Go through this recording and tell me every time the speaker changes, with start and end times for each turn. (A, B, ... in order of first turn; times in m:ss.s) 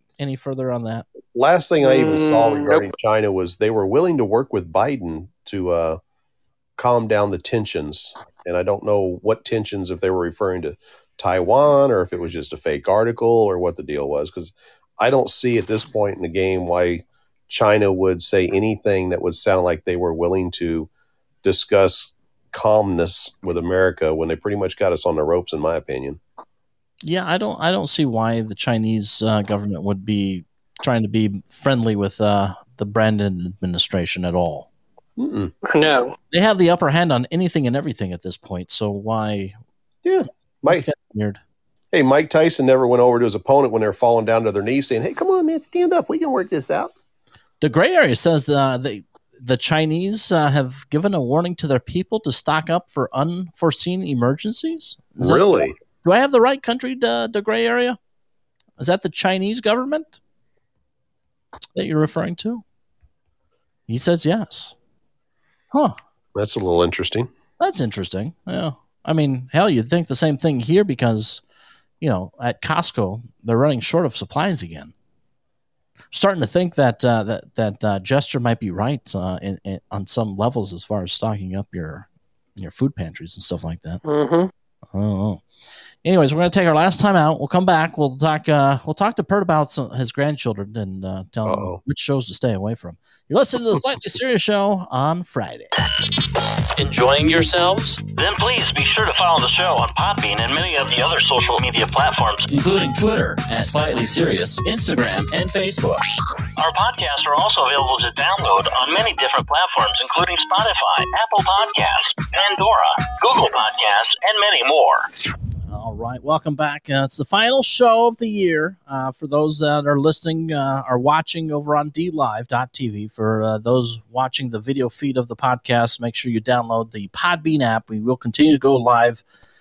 0:00.2-0:01.1 A
0:01.3-0:06.0 B
0:01.8-0:02.9 C
0:06.8-0:20.9 B
0:21.4-0:26.2 B
0:27.0-0:34.7 A
0:35.2-0:35.6 B
0:35.6-0:36.1 C
0:36.3-0:39.6 A
0:40.0-0:40.9 B
0:40.6-0:41.4 A
0:41.9-0:46.9 B
0:47.6-0:58.0 A
0:55.2-0:55.7 B
0:58.8-1:00.2 A
1:01.7-1:02.6 A
1:03.9-1:04.7 A
1:06.4-1:07.3 B
1:07.6-1:11.4 A
1:12.0-1:14.9 A
1:16.1-1:24.0 A
1:24.0-1:24.5 C
1:24.9-1:25.4 A
1:26.0-1:35.7 A
1:31.4-1:31.8 B
1:36.8-1:38.0 D
1:38.1-1:42.5 E
1:42.5-1:46.1 D
1:46.6-1:55.1 E
1:55.7-2:09.2 A